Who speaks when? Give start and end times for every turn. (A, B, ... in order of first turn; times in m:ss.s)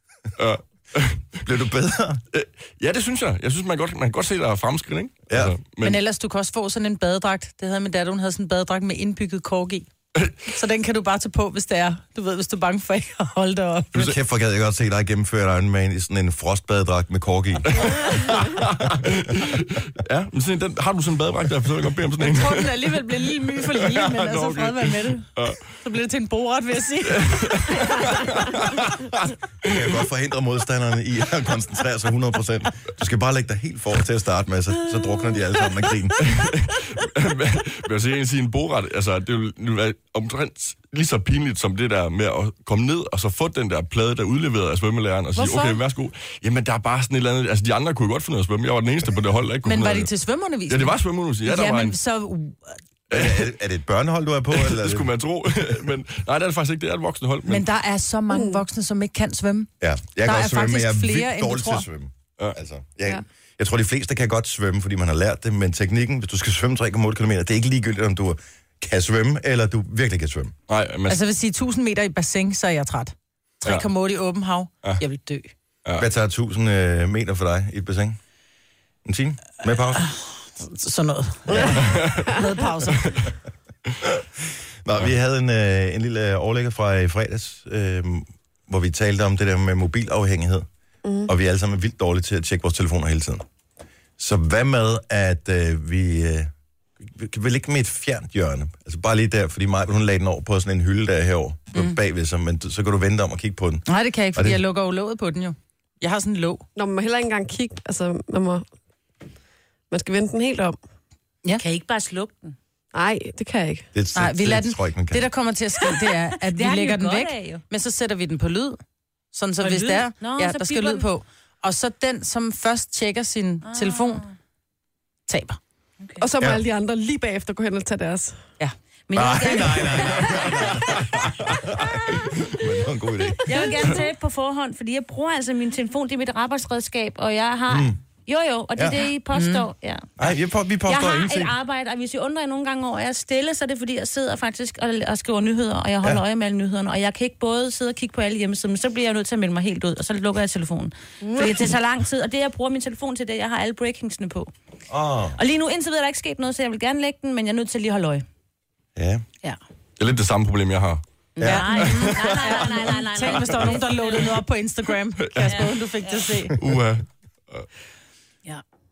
0:00.4-0:01.4 A
0:01.4-0:02.2 B
0:02.3-0:06.0 A
0:05.3-0:05.6 B
0:05.8-0:09.9 C
0:10.5-0:14.0 C
0:13.9-0:17.9 B
0:17.7-0:25.7 A
0:22.2-0:27.3 C
0:27.1-0:29.9 A
0:29.6-0:36.2 B
0:36.2-0:50.1 A
0:45.4-0:45.8 C
0:49.6-0:52.7 C
0:50.7-0:52.0 A
0:53.1-0:55.1 B
0:53.1-0:53.5 A
0:54.5-0:57.7 A
0:57.5-0:59.7 C
0:58.3-0:58.6 D
0:59.8-1:10.6 B
1:00.2-1:01.9 C
1:10.7-1:11.2 A
1:11.1-1:15.5 C
1:16.0-1:18.2 B
1:19.0-1:20.0 B
1:19.9-1:23.2 C
1:21.5-1:22.6 D
1:21.5-1:21.8 B
1:21.8-1:22.3 A
1:23.0-1:23.3 A
1:24.8-1:30.7 B
1:31.0-1:31.3 D
1:31.3-1:33.4 B
1:34.2-1:44.6 B
1:43.9-1:46.6 C
1:46.8-1:48.6 D
1:49.9-1:50.8 D
1:51.6-1:52.6 E
1:52.9-1:53.9 D
1:53.9-1:55.3 B
1:54.2-1:58.8 C
1:56.5-1:57.6 E
1:59.3-2:04.2 C
1:59.6-2:01.1 E
2:03.6-2:04.3 E
2:05.3-2:05.6 C
2:06.2-2:08.4 D
2:09.1-2:10.5 E
2:09.1-2:13.7 B
2:13.4-2:20.3 E
2:17.7-2:18.0 B
2:18.8-2:19.1 B
2:19.3-2:19.6 C
2:20.2-2:21.5 B
2:20.9-2:34.5 E
2:34.9-2:35.4 B
2:35.4-2:38.2 E
2:39.0-2:39.2 B
2:40.0-2:41.0 A
2:41.4-2:44.4 E
2:41.4-2:41.8 B
2:41.5-2:46.6 C
2:41.6-2:43.7 A
2:45.3-2:45.7 A
2:45.4-2:46.3 E
2:46.6-2:47.7 A